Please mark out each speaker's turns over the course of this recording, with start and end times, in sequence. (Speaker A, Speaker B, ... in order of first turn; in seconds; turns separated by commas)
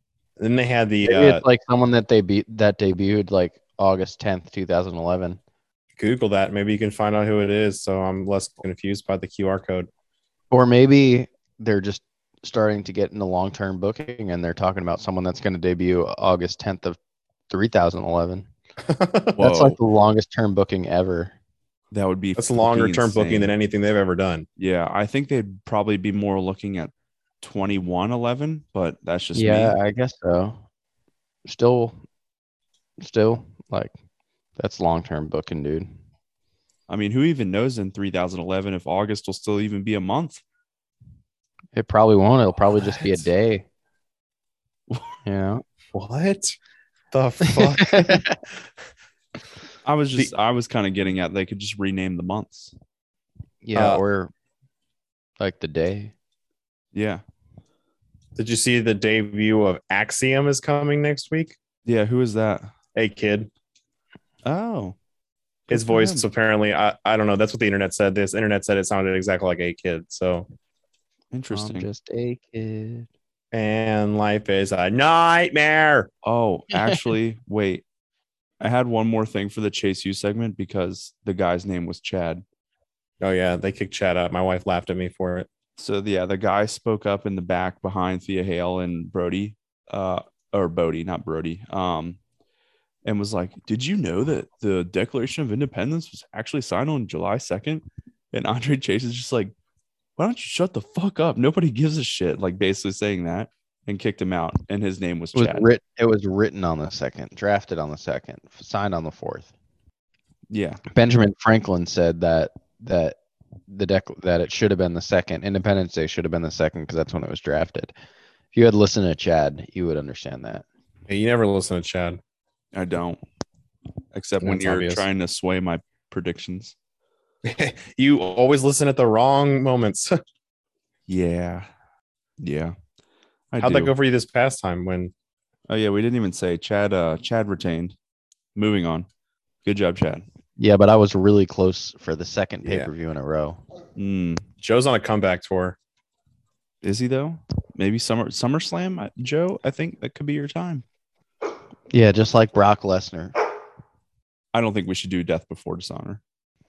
Speaker A: 0.4-1.4, Speaker B: 1.0-5.4, Speaker A: 6.0-9.9, Speaker B: 10.5-17.0, Speaker B: 17.5-18.5, Speaker A: 18.9-19.4, Speaker C: 19.4-19.8, Speaker B: 19.4-21.3, Speaker C: 21.9-23.5, Speaker A: 22.4-24.5, Speaker C: 24.6-29.8, Speaker B: 29.4-30.6, Speaker B: 31.4-32.0, Speaker B: 33.0-33.9, Speaker B: 34.6-35.9, Speaker C: 36.9-40.4, Speaker B: 41.8-43.7, Speaker B: 45.2-45.6, Speaker A: 45.9-46.6, Speaker A: 47.1-48.2, Speaker B: 47.5-48.4, Speaker C: 49.8-52.7, Speaker B: 53.6-54.3, Speaker A: 53.8-54.0, Speaker B: 55.4-56.1, Speaker C: 56.9-57.2, Speaker A: 58.4-61.6, Speaker C: 61.9-62.7, Speaker A: 63.0-63.5, Speaker C: 64.4-65.0, Speaker C: 65.7-66.2, Speaker A: 65.7-70.5, Speaker C: 71.3-71.9, Speaker B: 71.5-73.1, Speaker A: 73.5-76.1, Speaker C: 76.2-77.8, Speaker C: 78.6-82.4, Speaker A: 83.2-85.5, Speaker C: 85.8-92.2, Speaker C: 93.0-99.5, Speaker C: 100.2-105.7, Speaker B: 105.3-109.5, Speaker C: 110.5-110.8, Speaker B: 110.9-113.2, Speaker B: 113.7-117.9, Speaker B: 118.5-120.7, Speaker A: 121.1-122.2, Speaker C: 122.7-123.2, Speaker C: 124.1-126.8, Speaker A: 124.4-125.0, Speaker A: 127.4-130.2, Speaker C: 131.1-131.7, Speaker C: 132.4-132.8, Speaker C: 133.5-133.9, Speaker A: 133.6-135.1, Speaker C: 135.7-137.9, Speaker C: 138.6-139.1, Speaker C: 139.6-140.3, Speaker B: 140.6-143.6, Speaker C: 144.0-144.4, Speaker A: 144.6-145.8, Speaker C: 146.8-150.8, Speaker B: 151.9-153.3, Speaker C: 154.5-156.2